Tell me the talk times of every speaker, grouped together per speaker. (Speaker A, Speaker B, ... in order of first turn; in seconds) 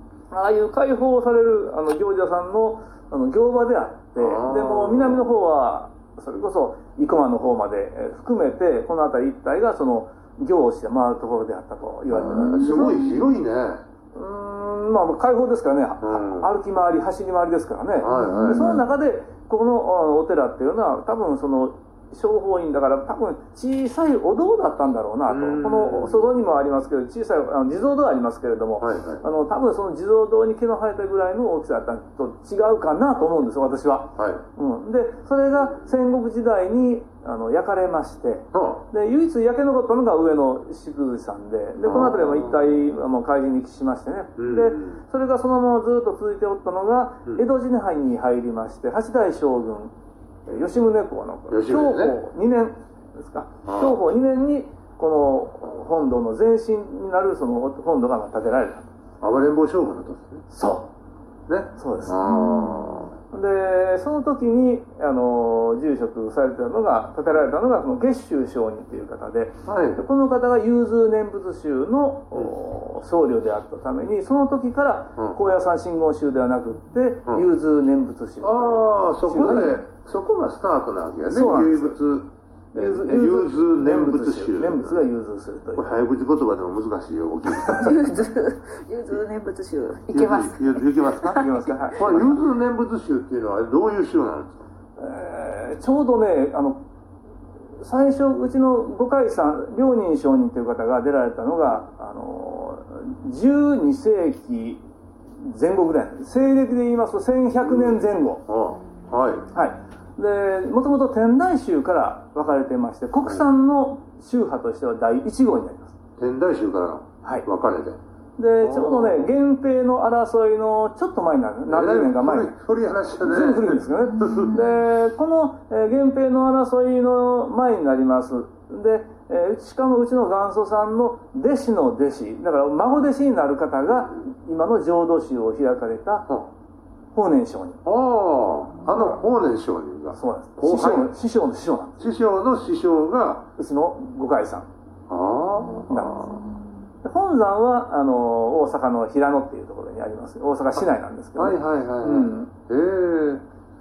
Speaker A: 0.3-13.2, 14.1-49.9, 50.5-58.9, 60.5-60.9, 61.8-62.2, 63.3-79.8, 81.3-82.0, 82.7-85.9, 91.2-92.4, 95.0-96.8, 97.8-104.8, 105.4-108.5, 109.5-115.9, 118.4-122.6, 123.2-136.3, 137.1-137.8, 140.2-142.1, 143.6-144.7, 145.9-146.5, 147.0-152.5
Speaker B: 4.2-5.2, 12.1-13.8, 16.0-16.5, 18.0-18.8, 25.3-26.3, 28.8-29.2, 34.2-34.5, 38.5-38.9, 41.8-42.6, 44.4-45.0, 51.5-52.2, 53.7-54.0, 59.2-60.5, 61.5-63.1, 69.7-70.0, 78.4-85.0, 85.8-88.0, 90.1-94.6, 107.6-109.5, 116.2-118.0, 118.6-119.3, 121.7-124.6, 137.8-141.1, 142.0-143.5, 145.1-146.4, 151.4-153.4
Speaker C: 12.3-13.2, 18.1-18.7, 62.3-63.0, 87.6-91.5